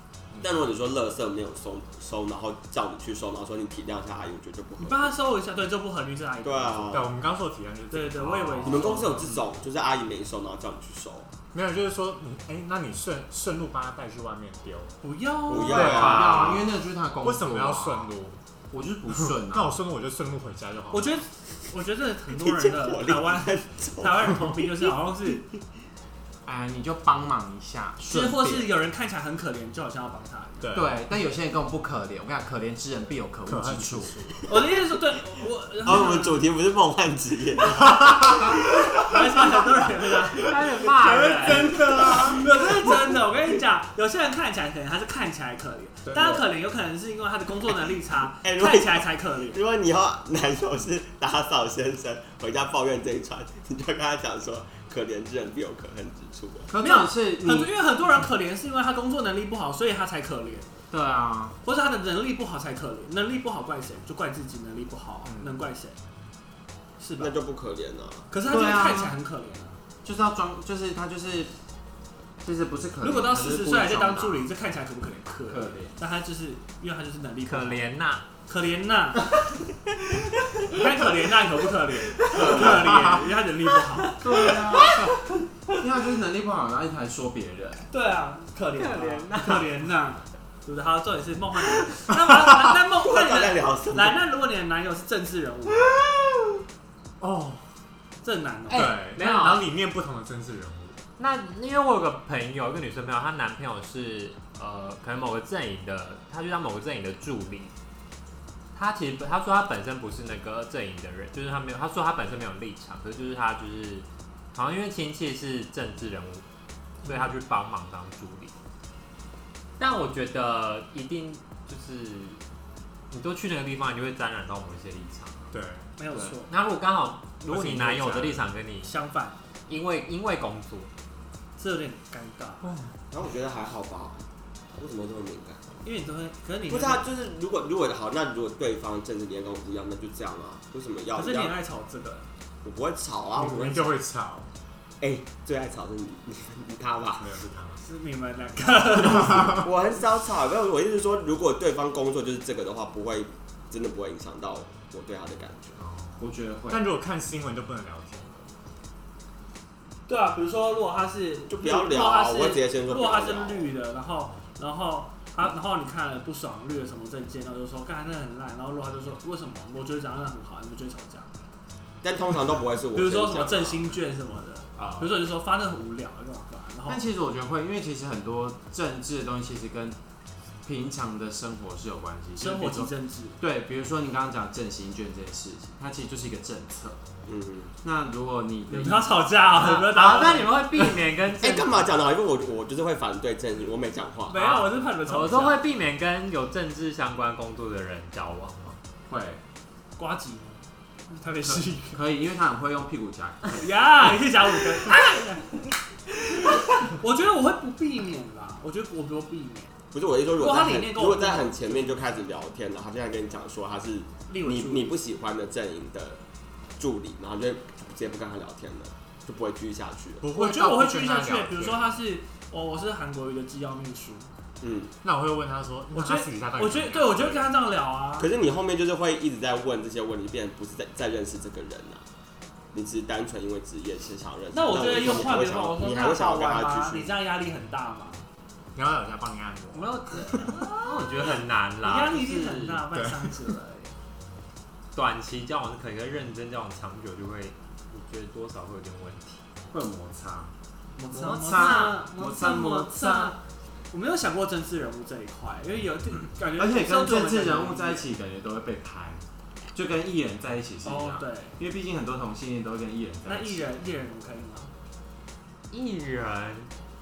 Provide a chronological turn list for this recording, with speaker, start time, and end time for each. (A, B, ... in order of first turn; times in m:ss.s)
0:00.3-0:00.6 A
0:00.4-0:05.1 B
0:04.8-0:07.0 C
0:06.4-0:07.1 B
0:06.9-0:09.4 A
0:07.9-0:09.3 C
0:08.6-0:11.3 B
0:11.5-0:15.0 A
0:15.0-0:16.2 C
0:15.5-0:16.7 B
0:15.5-0:18.1 D
0:15.8-0:16.3 A
0:16.2-0:16.5 E
0:17.2-0:18.4 A
0:18.7-0:19.8 D
0:19.4-0:21.2 A
0:20.9-0:25.4 C
0:22.3-0:24.6 B
0:26.4-0:28.7 D
0:28.0-0:30.7 C
0:30.6-0:31.0 A
0:30.7-0:34.2 D
0:33.5-0:34.4 A
0:34.5-0:36.4 C
0:35.8-0:40.4 B
0:38.9-0:49.6 C
0:40.4-0:41.8 E
0:41.4-0:42.4 A
0:41.9-0:42.3 B
0:46.1-0:46.4 A
0:48.4-0:56.7 B
0:56.7-0:57.7 D
0:56.8-1:00.8 C
1:00.9-1:01.6 D
1:01.6-1:06.0 C
1:05.2-1:05.6 A
1:07.0-1:07.3 C
1:07.2-1:08.3 B
1:08.3-1:09.8 C
1:08.4-1:09.1 D
1:10.0-1:11.5 D
1:12.4-1:14.5 D
1:13.0-1:17.8 C
1:15.5-1:16.0 D
1:17.4-1:18.3 E
1:18.4-1:19.4 C
1:20.6-1:24.6 C
1:22.3-1:23.1 D
1:24.2-1:25.1 D
1:24.5-1:25.1 E
1:25.8-1:27.8 D
1:27.9-1:36.0 C
1:28.7-1:29.7 E
1:33.0-1:34.2 B
1:37.2-1:37.6 A
1:38.2-1:39.2 C
1:38.7-1:39.7 E
1:38.7-1:41.0 A
1:41.2-1:47.7 E
1:48.7-1:56.4 E
1:57.0-1:58.5 E
1:59.8-2:02.4 E
2:03.1-2:05.5 E
2:05.5-2:06.0 A
2:06.0-2:06.5 C
2:06.5-2:08.9 E
2:07.5-2:08.5 A
2:08.8-2:09.4 C
2:09.7-2:10.9 E
2:11.6-2:12.7 C
2:12.6-2:12.9 A
2:13.1-2:15.8 B
2:15.8-2:17.0 C
2:16.7-2:21.6 B
2:21.1-2:22.3 C
2:22.6-2:24.0 B
2:23.4-2:24.5 A
2:25.0-2:27.4 B
2:27.2-2:27.8 A
2:27.8-2:29.7 C
2:29.1-2:35.8 B
2:29.3-2:29.6 A
2:35.8-2:38.5 A
2:36.2-2:36.8 D
2:40.1-2:51.3 C
2:41.5-2:43.7 B
2:52.0-2:54.0 B
2:52.9-2:57.0 C
2:54.8-2:55.2 D
2:56.9-3:00.0 D
3:00.6-3:07.0 D
3:02.4-3:03.4 C
3:07.2-3:07.7 B
3:07.8-3:09.3 D
3:08.7-3:10.7 C
3:09.5-3:11.8 E
3:11.3-3:14.4 B
3:14.3-3:15.6 C
3:14.3-3:18.8 E
3:19.1-3:19.4 D
3:20.0-3:22.0 C
3:21.5-3:23.7 D
3:23.5-3:29.7 C
3:29.9-3:36.2 B
3:30.3-3:32.1 C
3:34.3-3:34.9 C
3:36.8-3:40.2 B
3:40.2-3:41.9 A
3:40.3-3:44.3 C
3:44.6-3:44.9 B
3:45.0-3:47.5 A
3:45.9-3:48.3 C
3:48.2-3:52.0 B
3:52.7-3:57.1 B
3:54.5-3:58.2 C
3:58.7-3:59.9 A
3:59.7-4:02.8 E
4:00.3-4:01.2 C
4:01.8-4:03.9 C
4:02.9-4:03.4 A
4:04.9-4:09.4 E
4:09.7-4:10.5 D
4:11.0-4:13.4 C
4:11.1-4:12.0 E
4:11.1-4:13.4 D
4:13.9-4:18.0 C
4:16.6-4:19.2 D
4:19.7-4:23.6 D
4:20.8-4:21.6 C
4:23.2-4:24.7 C
4:25.7-4:26.7 E